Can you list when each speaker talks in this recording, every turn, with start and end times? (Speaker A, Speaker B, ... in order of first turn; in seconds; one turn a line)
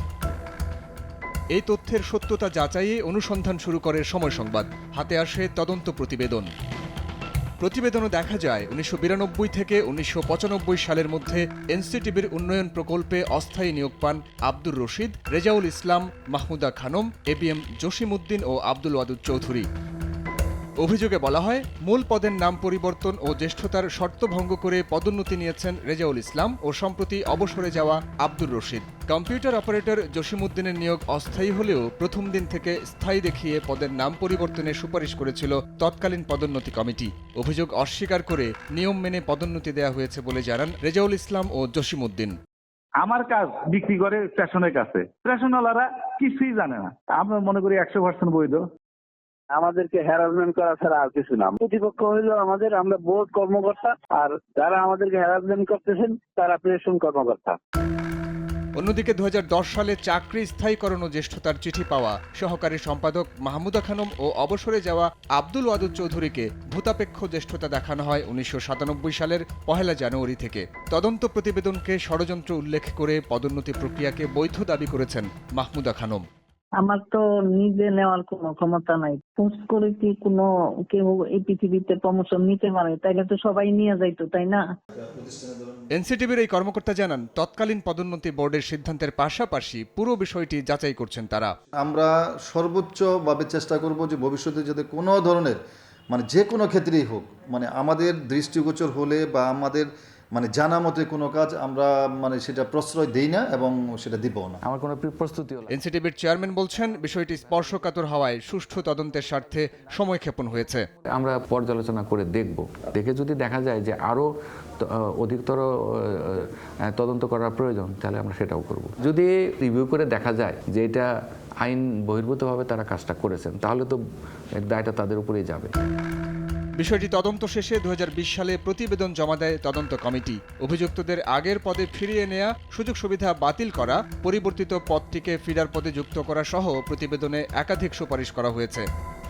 Speaker A: 1.5-6.5
Speaker A: 7.6-19.7
Speaker A: 20.8-42.4
Speaker B: 43.0-48.7
Speaker C: 49.5-57.6
Speaker A: 58.8-76.2
Speaker D: 76.8-84.6
Speaker E: 85.0-85.8
Speaker A: 85.9-91.5
Speaker E: 91.8-95.6
Speaker E: 96.1-104.6
Speaker F: 104.6-105.7
Speaker A: 105.7-110.8
Speaker F: 111.1-114.3
Speaker F: 114.8-121.1
Speaker F: 121.6-124.0
Speaker F: 124.6-125.7
Speaker A: 126.8-138.8